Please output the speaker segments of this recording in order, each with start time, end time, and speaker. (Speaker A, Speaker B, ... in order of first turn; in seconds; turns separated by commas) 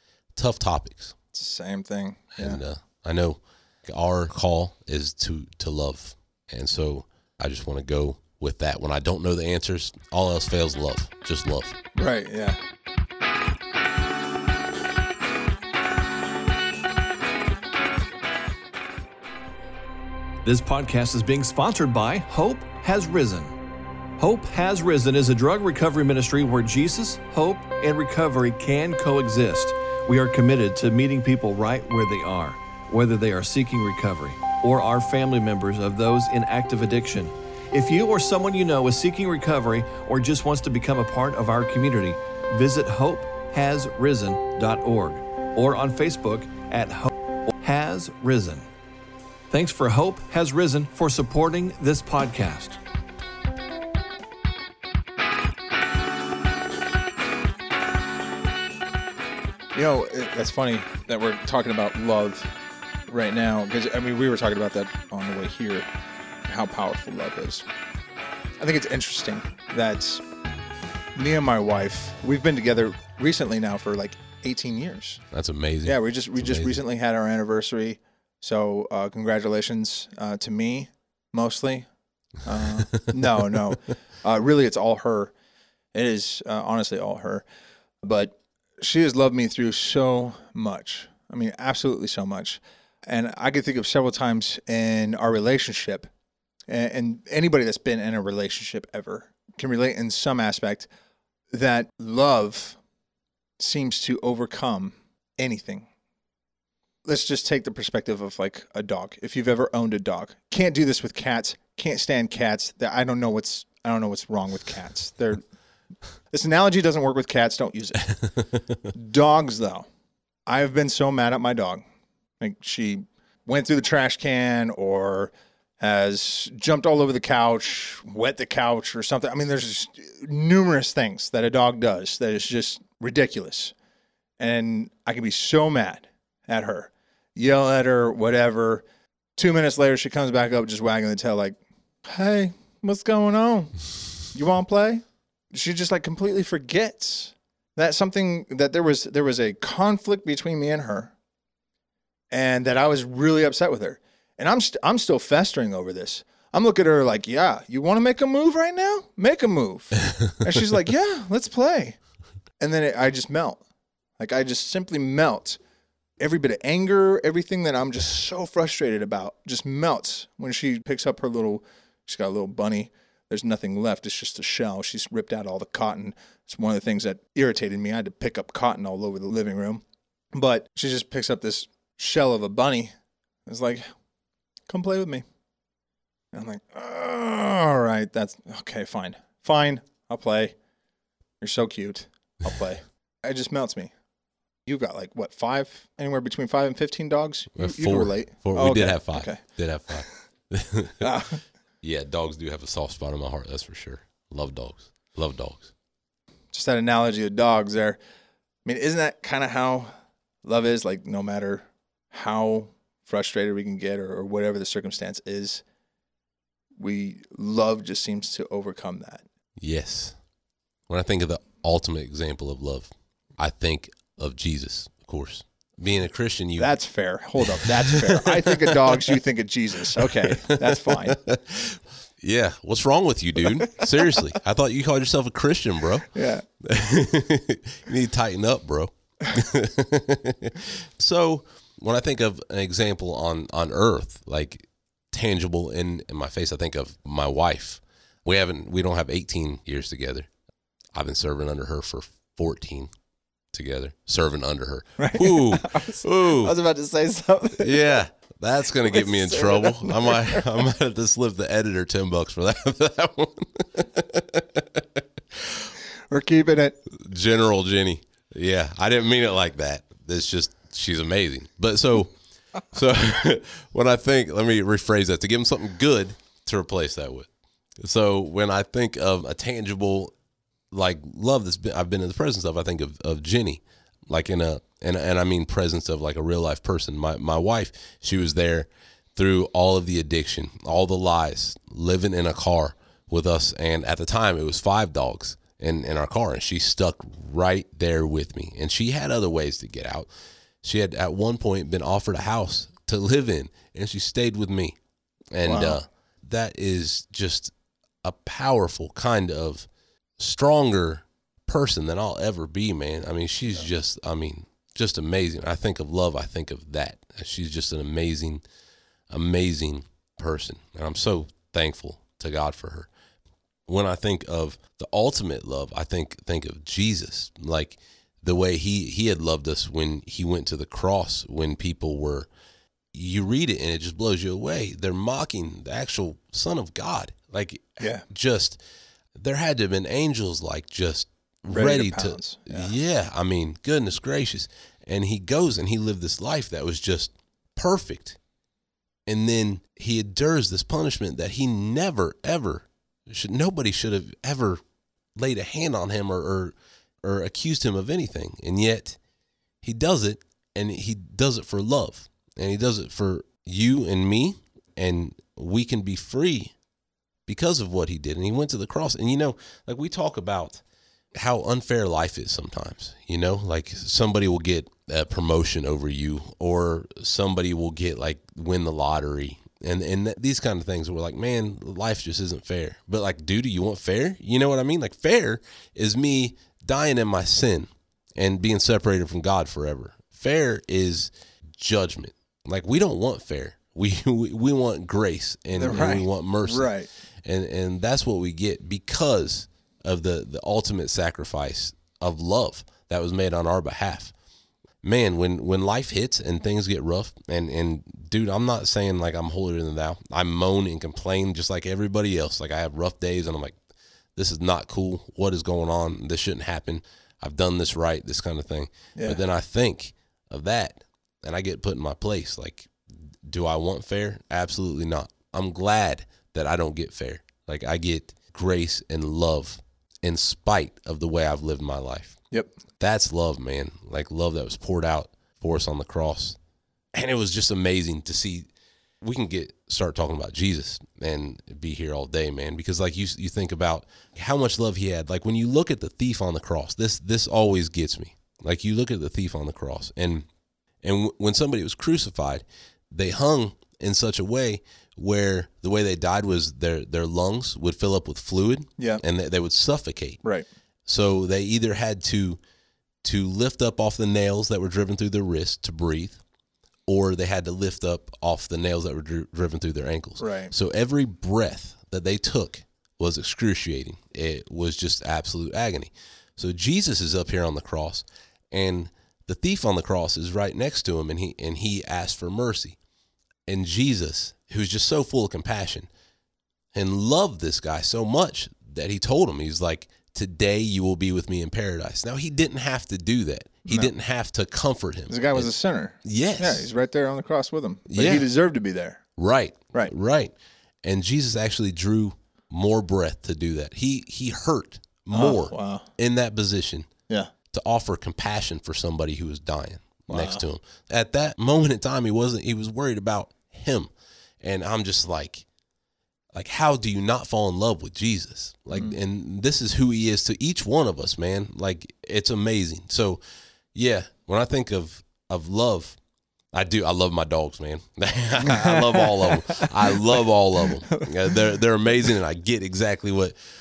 Speaker A: 0.3-1.1, Speaker B: 1.3-2.6, Speaker A: 2.4-11.8, Speaker B: 12.0-12.6, Speaker C: 20.4-23.6, Speaker C: 24.2-47.1, Speaker C: 47.6-48.7, Speaker C: 49.5-52.8, Speaker B: 59.8-62.5, Speaker B: 63.1-65.9, Speaker B: 66.5-67.7, Speaker B: 68.6-70.2, Speaker B: 71.2-75.2, Speaker A: 75.3-76.8, Speaker B: 75.8-81.9, Speaker B: 82.4-85.3, Speaker B: 85.9-87.4, Speaker B: 88.0-96.1, Speaker B: 96.7-100.9, Speaker B: 101.5-102.8, Speaker B: 103.6-105.9, Speaker B: 107.0-115.4, Speaker B: 116.3-118.1, Speaker B: 118.9-119.9, Speaker B: 120.5-121.8, Speaker B: 122.4-133.7, Speaker B: 134.4-138.8, Speaker B: 139.4-143.7, Speaker B: 144.3-151.1, Speaker B: 152.3-162.0, Speaker B: 162.6-163.6, Speaker B: 164.2-165.6, Speaker B: 166.2-182.9, Speaker B: 183.5-183.9, Speaker B: 184.7-185.2, Speaker B: 186.3-190.6, Speaker B: 191.4-193.9, Speaker B: 194.7-199.4, Speaker A: 197.6-201.1, Speaker B: 201.0-201.4, Speaker A: 201.8-205.7, Speaker B: 206.5-208.0, Speaker B: 208.7-209.9, Speaker B: 210.4-215.6, Speaker B: 216.8-219.2, Speaker A: 219.6-220.2, Speaker A: 220.9-226.7, Speaker B: 226.6-231.2, Speaker A: 227.4-229.2, Speaker A: 229.9-236.1, Speaker B: 236.1-236.4, Speaker A: 236.6-250.3, Speaker A: 250.9-252.9, Speaker A: 253.5-256.5, Speaker B: 255.0-258.0, Speaker A: 257.6-265.7, Speaker B: 258.9-260.5, Speaker B: 266.1-266.8, Speaker A: 266.9-272.1, Speaker A: 272.7-280.1, Speaker A: 280.7-300.1, Speaker A: 300.6-304.8, Speaker A: 305.3-309.7, Speaker B: 305.4-305.8, Speaker A: 310.2-318.4, Speaker A: 319.1-322.9, Speaker A: 323.7-332.3, Speaker A: 332.9-338.6, Speaker B: 337.8-338.0, Speaker A: 339.1-348.2, Speaker B: 341.5-342.7, Speaker A: 349.1-354.6, Speaker A: 355.2-359.0, Speaker A: 359.6-366.5, Speaker A: 367.3-370.6, Speaker A: 371.1-396.7, Speaker B: 395.6-396.9, Speaker A: 397.2-404.1, Speaker A: 404.8-413.6, Speaker A: 414.1-432.2, Speaker B: 419.0-419.2, Speaker A: 432.8-436.4, Speaker A: 436.9-438.5, Speaker A: 439.0-450.3, Speaker A: 450.8-460.2, Speaker A: 460.9-462.4, Speaker A: 463.0-466.2, Speaker A: 466.9-482.8, Speaker B: 470.2-470.5, Speaker A: 483.5-485.9, Speaker A: 486.7-495.5, Speaker B: 493.7-493.9, Speaker B: 495.1-499.0, Speaker A: 496.0-496.7, Speaker A: 497.9-498.3, Speaker A: 499.2-506.9, Speaker B: 505.1-505.9, Speaker A: 507.5-515.5, Speaker B: 510.1-510.4, Speaker A: 516.3-523.2, Speaker A: 523.7-526.0, Speaker A: 526.5-533.4, Speaker B: 528.5-530.0